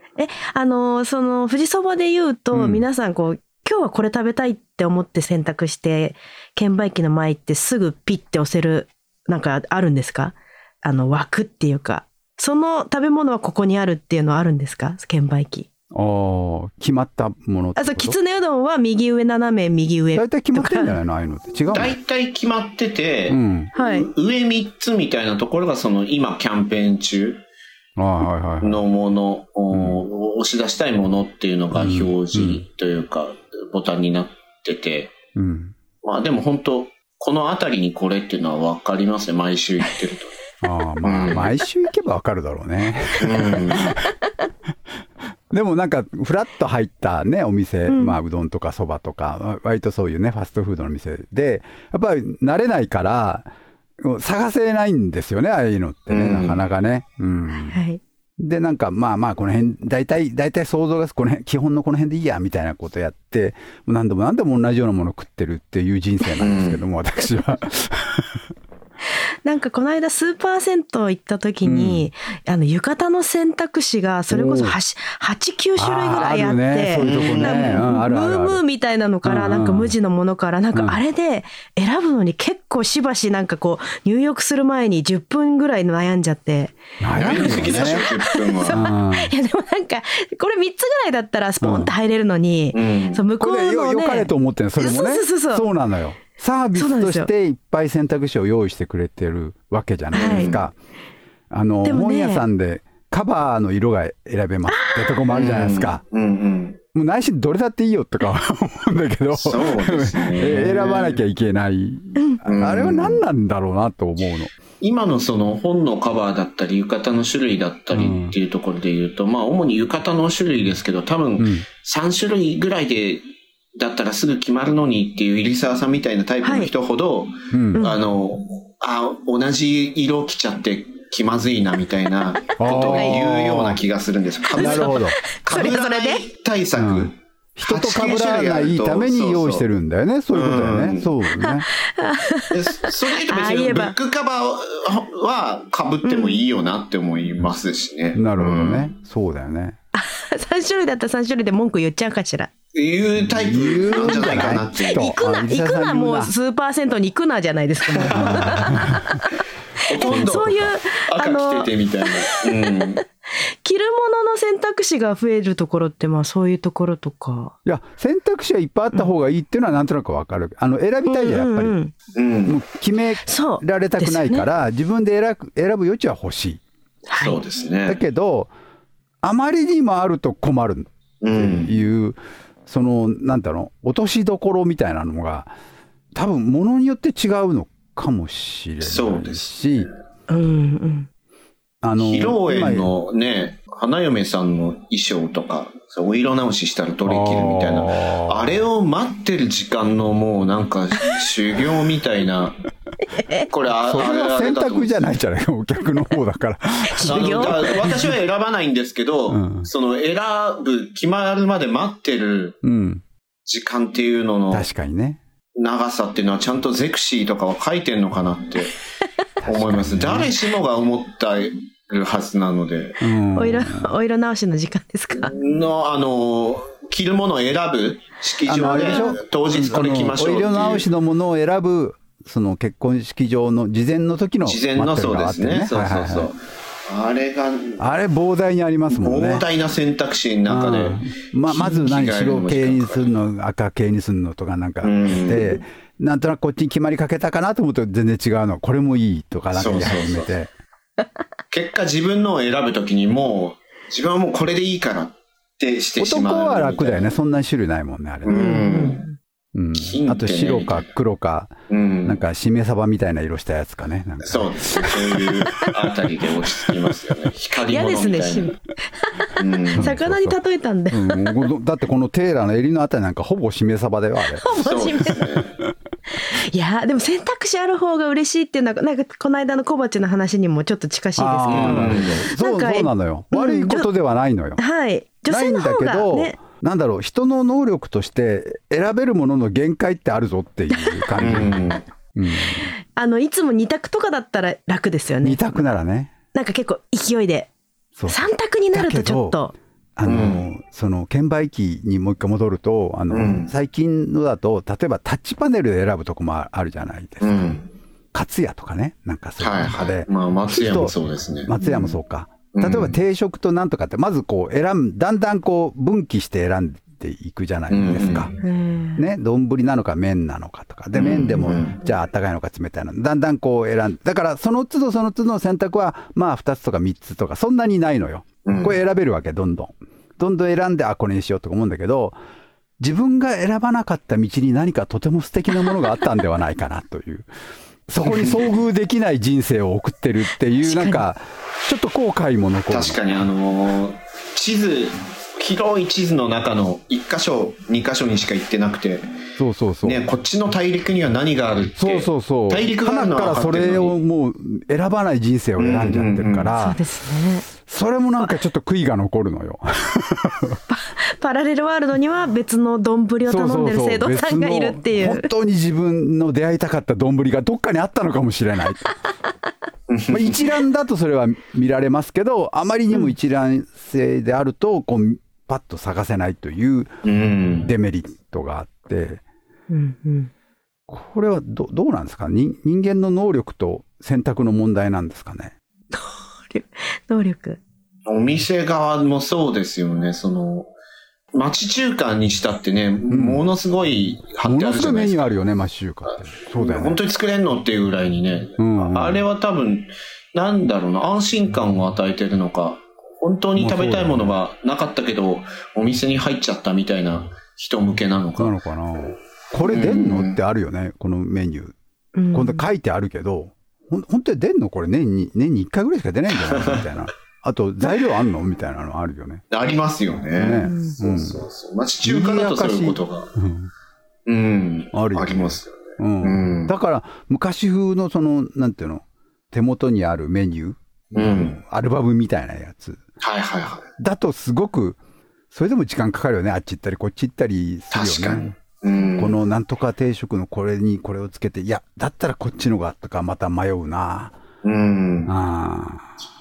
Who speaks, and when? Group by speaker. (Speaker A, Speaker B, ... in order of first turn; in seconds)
Speaker A: 0.2-15.7, 17.8-20.9, 23.8-24.1, 47.9-48.2, 57.7-58.0, 69.5-95.7, 96.8-97.3, 100.1-100.5, 101.8-102.5, 104.7-105.2, 126.4-126.7, 132.7-133.2, 134.5-136.2, 141.4-143.9, 146.1-146.4, 149.9-152.5, 153.8-159.3, 159.9-161.7, 163.6-167.5, 171.1-171.9, 173.2-174.5, 177.1-177.4, 190.3-191.1, 203.1-203.5, 206.9-208.0, 223.4-225.3, 228.6-229.2, 258.3-259.2, 267.7-271.4, 274.4-275.3, 276.2-283.9, 284.6-286.4, 290.7-291.1, 293.0-295.4, 296.3-297.5, 298.1-299.6, 318.4-319.0, 340.6-341.0, 356.6-357.5, 360.7-365.3, 379.7-380.3, 385.9-387.6, 412.2-412.7, 420.6-421.0
Speaker B: 2.5-2.9, 15.9-18.2, 20.1-21.9, 23.3-23.7, 28.0-28.8, 29.7-30.0, 31.7-32.6, 35.4-35.8, 40.6-44.0, 45.5-53.5, 54.0-57.8, 58.4-68.5, 71.7-72.1, 74.3-74.8, 75.8-78.6, 79.2-80.0, 80.7-81.0, 87.0-88.0, 88.7-89.3, 91.6-91.9, 93.4-100.8, 101.5-106.0, 106.9-114.5, 117.9-118.3, 121.4-121.7, 127.5-127.8, 132.6-133.8, 134.6-135.2, 136.8-141.7, 148.2-149.8, 153.2-156.3, 158.1-159.1, 160.1-160.7, 167.7-171.8, 172.5-176.6, 177.9-178.5, 179.2-185.5, 186.2-189.9, 191.8-192.9, 197.1-198.7, 203.8-207.7, 209.3-209.7, 212.6-213.0, 214.5-215.2, 219.4-220.3, 223.0-223.9, 228.5-236.3, 237.8-239.4, 240.5-250.5, 256.0-258.6, 259.6-265.4, 269.8-270.4, 270.9-274.4, 281.2-284.6, 285.3-291.6, 292.2-292.7, 295.2-296.1, 297.9-299.4, 300.0-307.6, 308.1-310.9, 311.5-318.3, 319.0-332.2, 332.8-337.3, 337.9-343.0, 349.4-350.0, 351.8-356.8, 357.5-360.6, 363.2-368.9, 370.1-376.9, 377.6-379.2, 380.9-385.5, 393.1-393.5, 394.4-397.0, 398.6-399.2, 403.6-404.3, 408.4-411.8, 412.3-419.4, 420.3-421.4, 422.0-423.7, 424.9-433.0, 434.0-435.0, 435.5-438.6, 439.2-444.4, 445.3-446.1
Speaker C: 21.7-27.4, 28.6-35.1, 36.0-40.4, 41.0-41.5, 43.2-43.9, 56.1-56.6, 66.4-66.8, 77.0-77.8, 87.2-88.8, 92.7-93.2, 100.2-100.6, 105.3-106.8, 109.3-111.2, 112.5-113.2, 114.8-123.2, 123.8-139.7, 140.3-141.1, 142.5-148.9, 152.7-155.0, 158.0-158.8, 159.8-163.0, 172.2-172.6, 177.2-178.0, 181.2-181.7, 188.8-189.9, 192.0-202.6, 203.5-205.2, 207.1-212.6, 213.5-214.7, 215.6-218.8, 219.4-223.0, 225.2-230.9, 234.5-237.9, 238.9-243.2, 244.8-245.6, 249.5-250.3, 251.5-257.2, 258.2-259.1, 259.8-260.9, 261.7-262.2, 264.2-268.5, 269.4-269.9, 274.6-275.6, 281.5-282.2, 291.2-291.8, 300.1-300.4, 303.1-303.5, 307.2-307.7, 309.4-311.9, 312.5-312.9, 317.7-318.4, 320.9-321.8, 328.4-328.8, 338.0-338.5, 342.7-349.1, 349.8-353.9, 355.6-356.5, 369.9-370.6, 377.0-377.7, 388.1-390.7, 391.3-395.3, 396.5-408.6, 409.6-410.4, 416.5-416.9, 419.5-423.3, 424.3-426.7, 431.1-431.6, 433.2-433.9, 437.9-439.3, 444.6-445.3